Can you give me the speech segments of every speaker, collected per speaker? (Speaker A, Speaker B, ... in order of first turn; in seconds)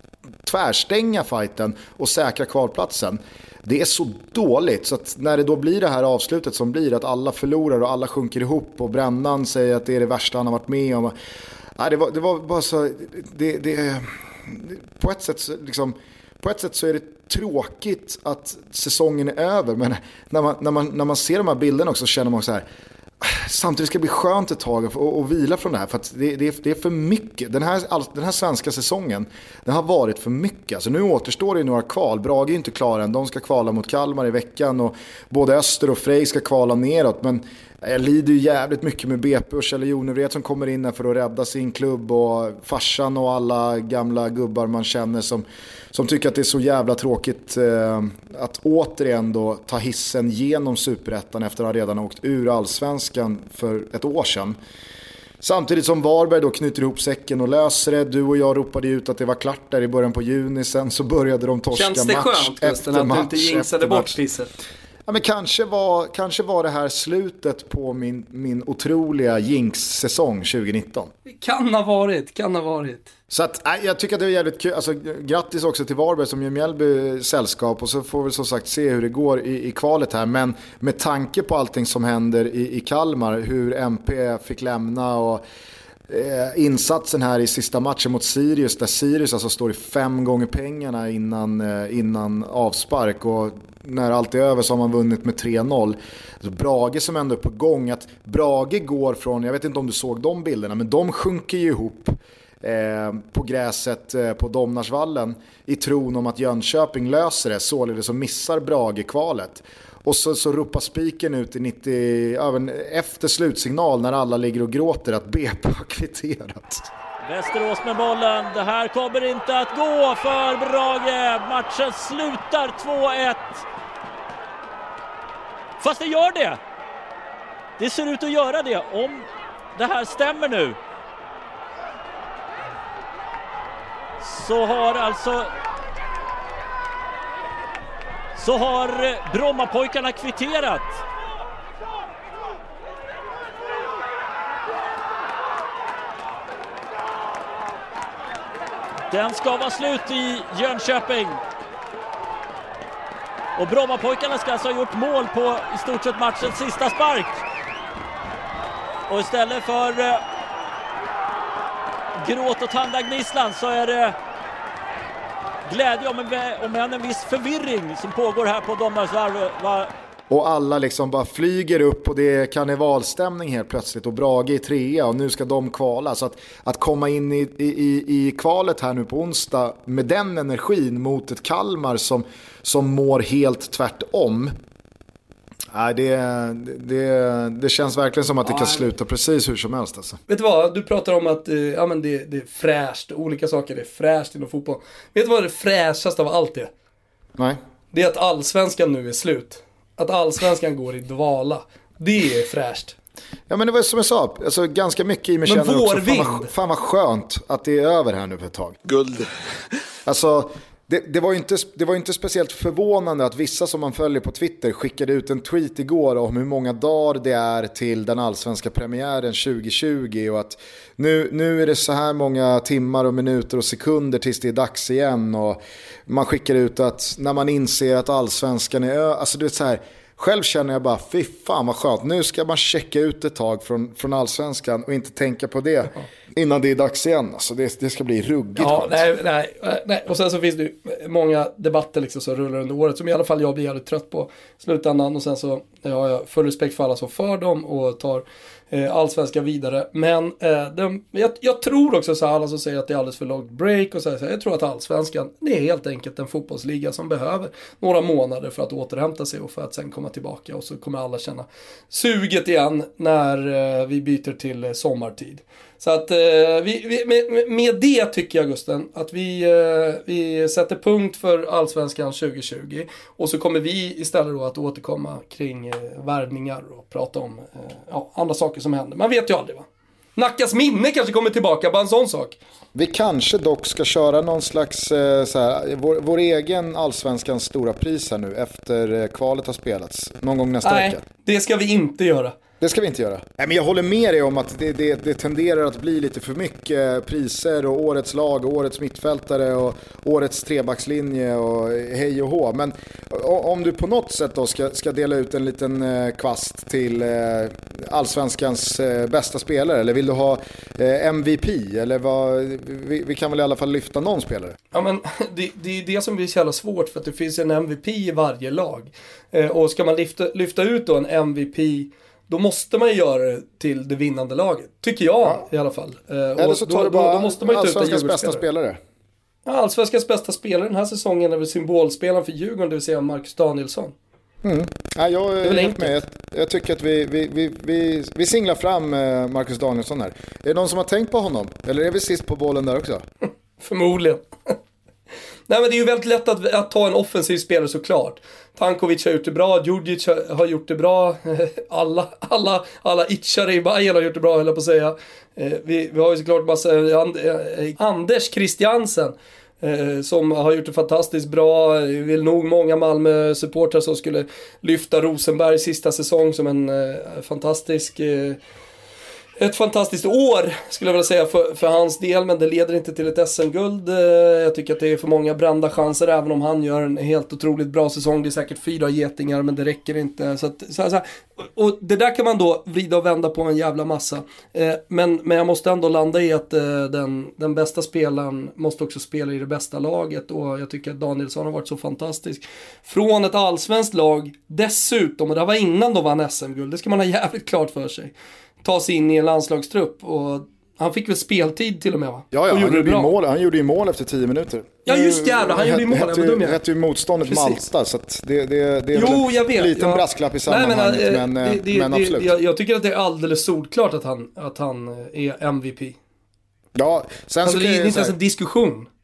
Speaker A: 0.4-11.1, 11.8-22.6, 23.2-54.6, 55.4-64.2, 65.1-71.1, 73.3-85.4, 86.1-116.9, 170.3-184.5, 185.7-190.2, 203.5-209.1, 210.1-239.0, 282.8-291.0, 292.6-314.6, 326.4-328.8, 334.4-343.1, 402.3-412.3, 416.8-418.1
Speaker B: 61.7-64.5, 71.3-73.1, 188.5-188.8, 190.3-196.7, 197.9-203.0, 205.5-206.5, 238.6-282.4, 290.6-292.4, 314.7-328.4, 329.5-333.9, 335.4-335.9, 343.6-344.6, 345.5-368.4, 369.4-403.1, 404.9-406.6, 407.2-407.6, 408.9-416.0, 417.4-418.9
Speaker C: 117.3-123.6, 125.8-126.5, 127.8-129.2, 129.8-130.7, 134.2-135.4, 138.4-140.9, 149.1-151.4, 153.6-157.3, 159.1-160.1, 162.2-164.1, 165.7-169.8